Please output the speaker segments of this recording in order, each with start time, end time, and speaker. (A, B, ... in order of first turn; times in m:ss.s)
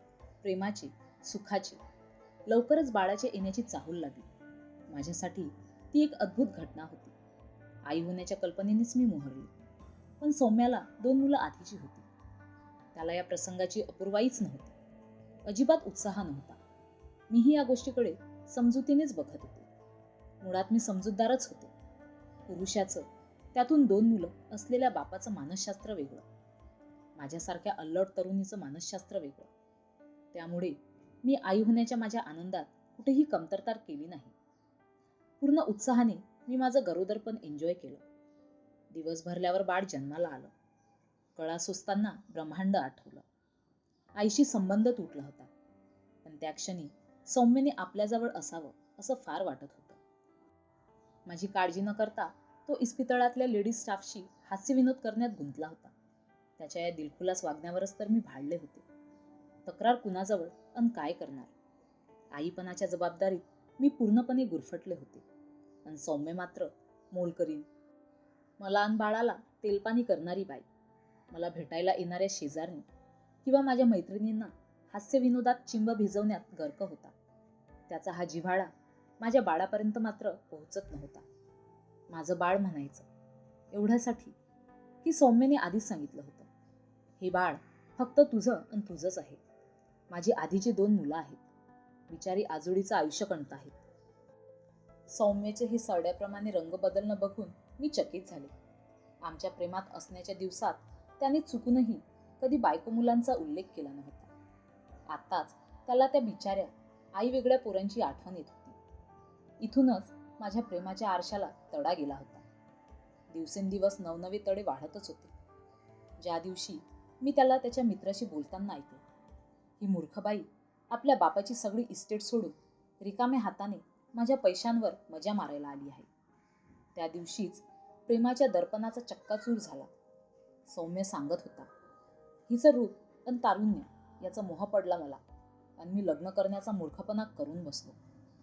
0:00.4-0:01.8 A
0:02.5-0:04.3 A
0:04.9-0:07.1 A
0:07.8-0:09.5 A
0:10.2-0:12.1 A
0:13.0-0:14.8 A
0:15.5-0:16.6 A
0:17.3-0:19.7 A
0:20.4-0:21.7 A
0:22.5-0:26.2 A
0:27.2-0:29.5 A
0:30.3-0:34.3 A
0:35.4-0:38.0 A
0:38.9-0:40.5 A
0:41.4-0:43.2 A
0:44.2-0:45.5 A
0:46.2-0:50.0 A
0:51.3-0:55.9 A
0:56.6-0:58.9 A
0:59.6-1:01.5 A
1:02.3-1:05.2 A
1:05.8-1:07.7 A
1:08.6-1:10.7 A
1:11.3-1:12.9 A
1:13.4-1:17.1 A
1:17.9-1:21.3 A
1:22.1-1:23.1 A
1:23.7-1:24.4 A
1:25.0-1:26.5 A
1:27.2-1:29.4 A
1:30.1-1:31.4 A
1:32.1-1:33.8 A
1:35.1-1:38.5 A
1:39.2-1:44.3 A
1:45.1-1:48.8 A
1:49.6-1:52.4 A
1:53.3-1:55.3 A
1:56.2-1:59.0 A
1:59.8-2:06.1 A
2:07.0-2:09.9 A
2:10.7-2:11.7 A
2:12.5-2:15.2 A
2:15.8-2:18.0 A